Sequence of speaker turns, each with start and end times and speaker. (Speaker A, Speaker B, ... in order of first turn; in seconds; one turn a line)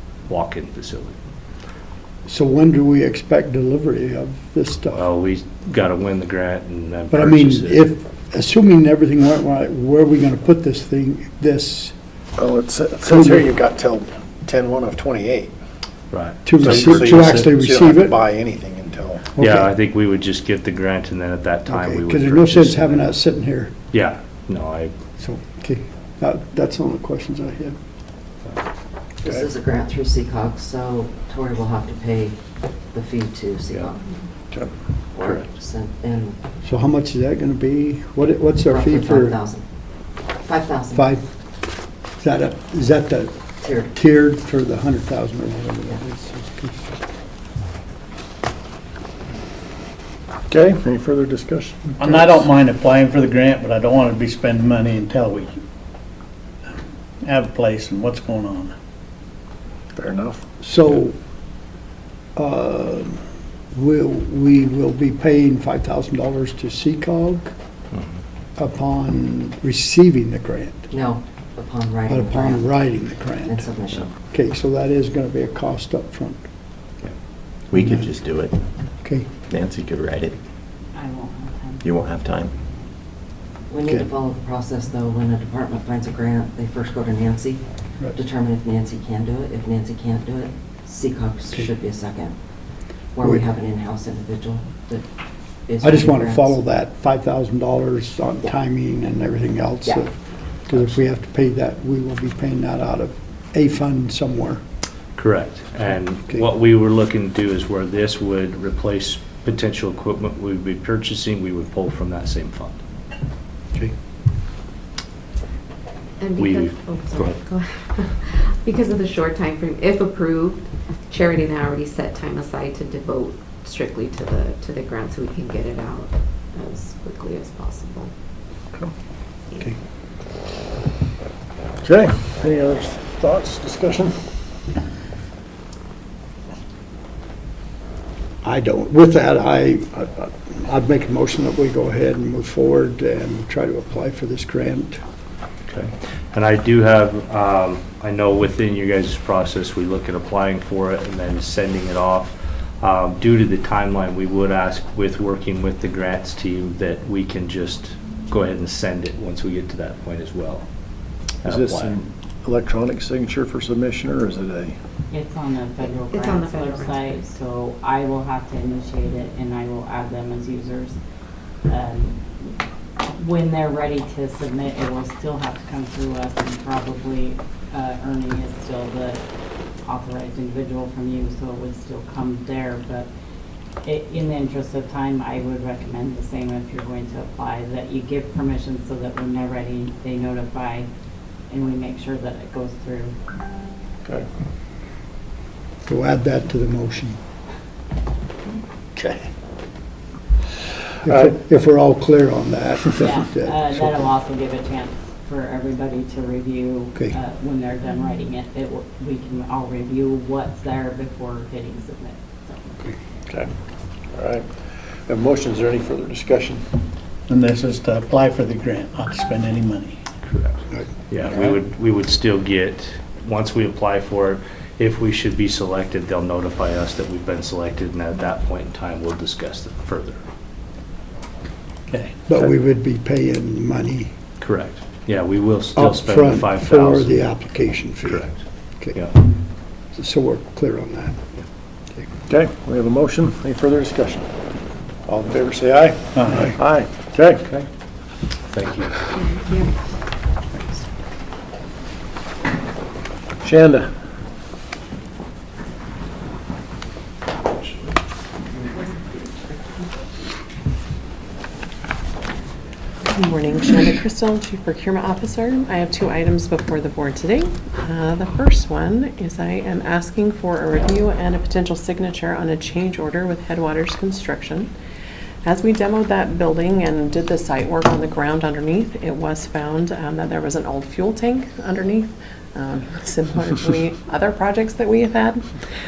Speaker A: 0.3-1.2
Speaker B: 2.3-5.0
Speaker A: 4.9-7.8
Speaker B: 7.1-11.9
Speaker C: 12.4-15.5
Speaker B: 13.1-13.5
Speaker A: 16.1-17.5
Speaker B: 16.4-18.2
Speaker C: 16.6-19.2
Speaker B: 19.4-19.7
Speaker A: 19.4-23.1
Speaker B: 21.7-23.7
Speaker A: 23.9-24.9
Speaker B: 25.2-27.8
Speaker D: 29.2-32.4
Speaker D: 32.9-34.0
Speaker C: 34.5-35.5
Speaker D: 35.2-36.4
Speaker B: 36.6-39.4
Speaker D: 38.7-39.6
Speaker D: 40.4-41.1
Speaker B: 40.9-41.3
Speaker B: 42.2-47.0
Speaker D: 43.6-43.9
Speaker C: 50.5-51.9
Speaker E: 52.0-55.6
Speaker B: 52.0-52.4
Speaker E: 57.2-58.7
Speaker C: 60.0-60.4
Speaker B: 60.6-61.1
Speaker B: 62.4-63.2
Speaker B: 63.7-67.5
Speaker B: 68.6-70.9
Speaker D: 70.9-72.7
Speaker B: 72.1-73.7
Speaker D: 73.5-74.2
Speaker B: 74.2-76.5
Speaker F: 77.7-78.6
Speaker B: 77.8-78.1
Speaker B: 79.0-79.3
Speaker F: 79.5-80.4
Speaker G: 81.0-81.8
Speaker F: 81.8-82.5
Speaker D: 83.7-87.6
Speaker D: 88.1-92.4
Speaker D: 93.1-95.0
Speaker D: 95.7-96.6
Speaker B: 95.8-100.1
Speaker B: 100.7-104.6
Speaker A: 105.2-112.8
Speaker H: 116.2-128.1
Speaker A: 116.4-117.4
Speaker C: 131.8-134.1
Speaker B: 138.4-145.0
Speaker A: 145.7-160.7
Speaker A: 161.4-162.0
Speaker C: 161.4-164.8
Speaker G: 165.1-171.0
Speaker H: 165.8-167.4
Speaker G: 171.7-172.5
Speaker G: 173.2-179.2
Speaker G: 179.8-183.1
Speaker G: 183.8-190.9
Speaker G: 191.5-193.2
Speaker B: 195.8-197.2
Speaker B: 201.0-204.1
Speaker C: 201.1-201.3
Speaker G: 203.0-212.8
Speaker C: 214.1-216.6
Speaker E: 217.3-220.0
Speaker A: 220.2-230.2
Speaker E: 221.2-221.5
Speaker E: 231.9-232.3
Speaker B: 232.3-234.1
Speaker A: 234.4-237.2
Speaker B: 235.8-239.1
Speaker A: 238.1-238.4
Speaker B: 239.9-241.2
Speaker C: 242.3-244.3
Speaker C: 245.1-247.4
Speaker E: 246.2-246.5
Speaker A: 248.5-249.1
Speaker H: 249.1-249.7
Speaker C: 253.4-253.9
Speaker I: 263.1-274.7
Speaker I: 275.4-285.6